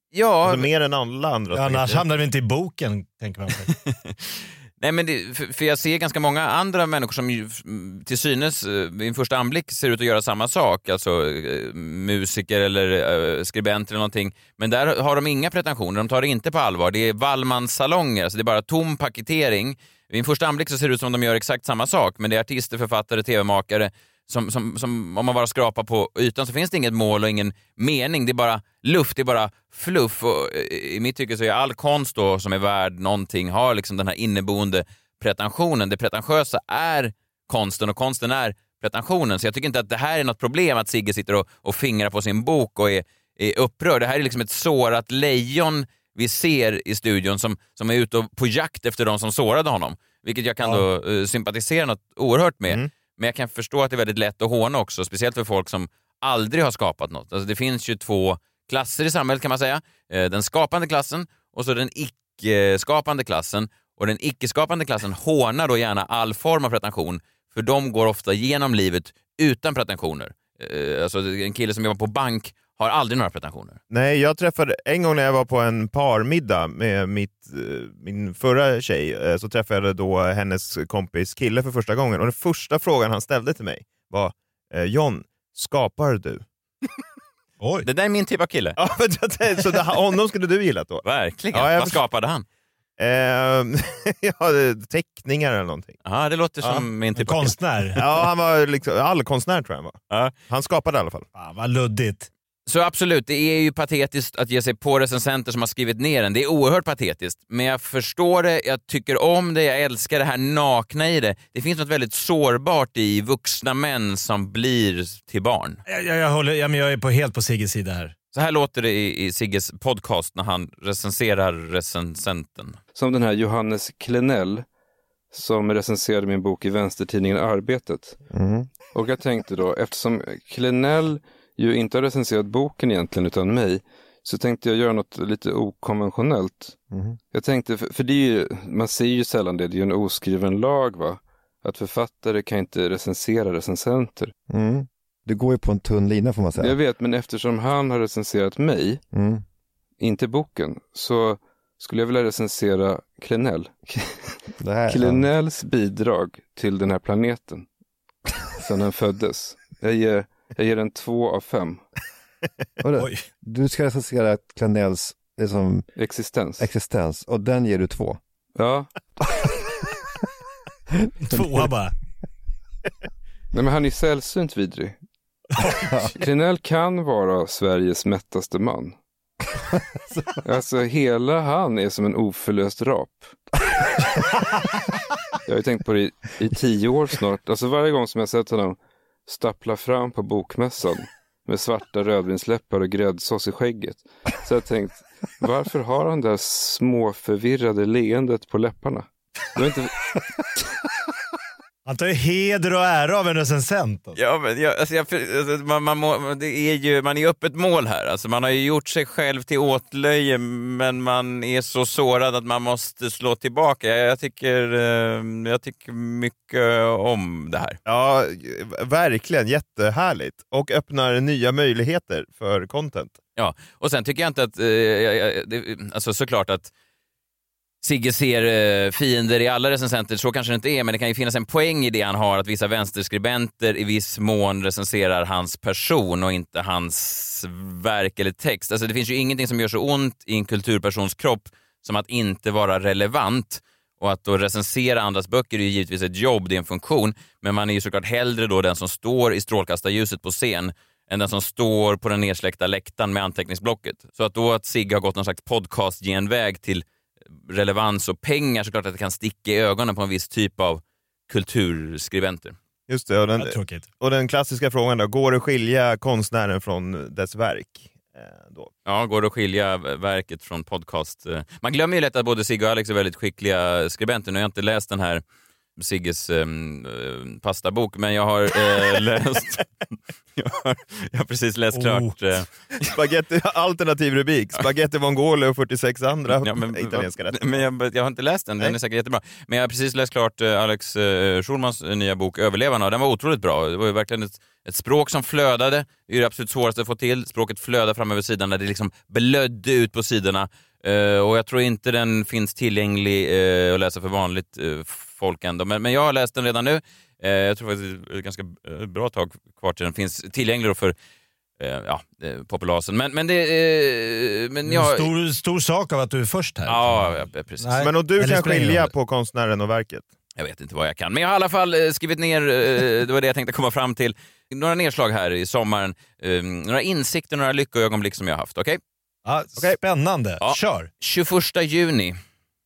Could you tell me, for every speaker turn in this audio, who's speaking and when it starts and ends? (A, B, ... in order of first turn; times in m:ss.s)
0:00.1-0:00.7 A
0:00.4-0:02.0 B
0:01.5-0:03.7 C
0:03.7-1:13.8 A
1:13.9-1:26.4 B
1:27.6-1:27.9 C
1:27.8-1:28.8 A
1:28.8-1:32.0 B
1:31.0-1:32.4 A
1:33.0-1:36.0 B
1:36.0-1:37.6 A
1:37.1-1:38.0 C
1:38.0-1:41.3 B
1:41.3-1:42.3 C
1:42.6-1:55.8 A
1:55.9-1:58.1 C
1:58.3-2:02.8 A
2:02.9-2:04.6 D
2:05.3-2:08.2 D
2:08.3-2:08.7 E
2:08.9-2:16.8 D
2:16.9-2:17.2 E
2:17.3-2:24.3 D
2:24.5-2:26.8 E
2:26.6-2:29.0 D
2:29.1-2:29.4 E
2:30.0-2:34.1 D
2:34.6-2:35.3 E
2:34.9-2:37.6 D
2:38.6-2:41.8 D
2:42.8-2:45.8 E
2:45.9-2:46.6 D
2:46.6-2:48.2 E
2:48.6-2:48.9 D
2:51.2-2:51.9 C
2:53.5-2:54.9 D
2:56.1-2:59.0 D
3:00.4-3:03.4 D
3:05.4-3:20.2 D
3:21.8-3:24.2 C
3:24.1-3:37.8 A
3:37.8-3:43.2 B
3:43.4-3:46.7 A
3:47.8-4:16.8 A
4:17.4-4:22.6 A
4:22.9-4:28.7 B
4:23.4-4:23.9 C
4:28.8-4:35.2 A
4:35.8-4:39.7 A
4:40.4-4:42.5 A
4:41.7-4:42.2 C
4:42.8-4:47.6 B
4:46.3-5:10.9 A
5:11.6-5:15.1 A
5:14.6-5:18.9 C
5:16.7-5:17.8 A
5:17.8-5:20.1 B
5:20.4-5:28.8 A
5:29.2-5:30.9 C
5:30.4-5:32.2 A